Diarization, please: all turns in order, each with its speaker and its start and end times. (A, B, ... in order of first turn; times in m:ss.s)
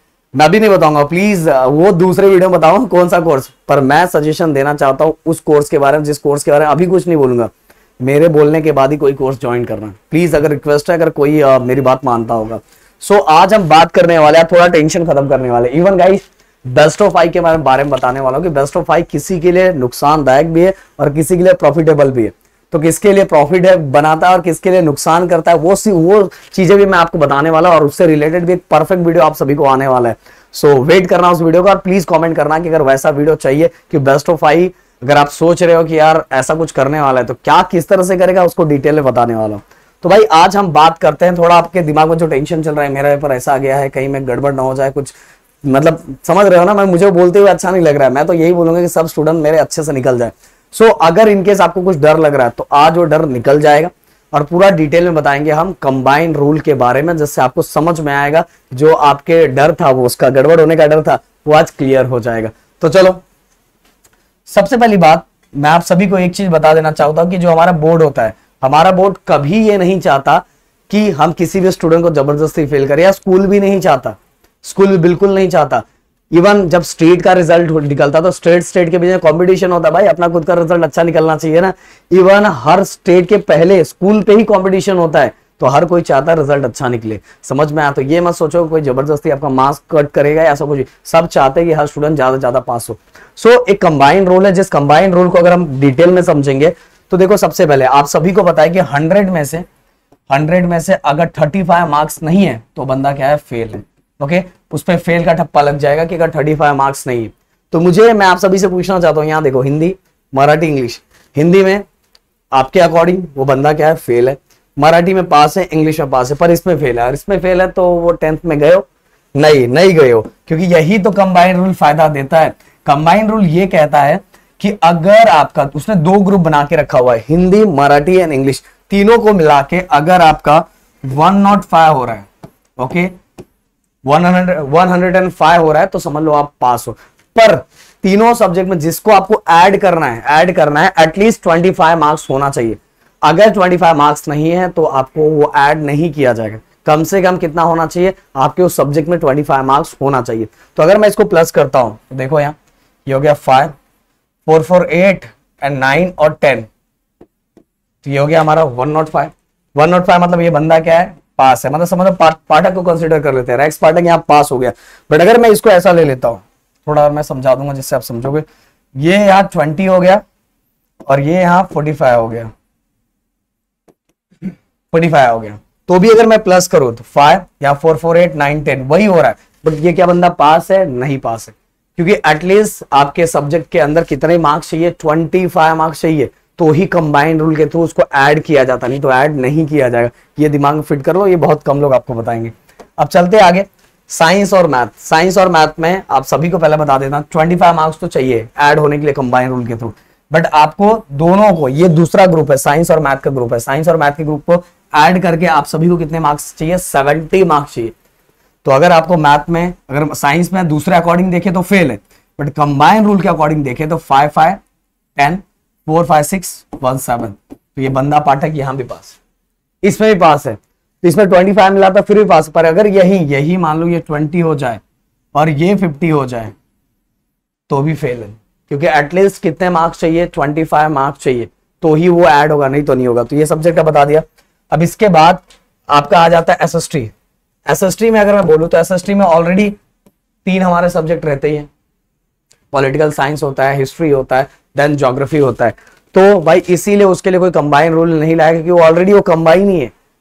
0:00.4-1:03.2 A
1:04.5-1:39.6 A
1:40.3-1:51.8 A
1:52.5-2:12.3 A
2:12.8-2:13.1 A
2:14.0-2:33.7 A
2:34.5-2:36.7 A
2:38.0-2:48.4 A
2:49.0-2:50.2 A
2:51.1-2:52.5 A
2:54.9-3:28.0 A
3:28.6-3:34.6 A
3:35.2-3:39.2 A
3:39.8-3:44.8 A
3:45.3-3:46.5 A
3:47.7-3:57.1 A
3:57.7-3:59.8 A
4:00.4-4:01.7 A
4:02.7-4:09.9 A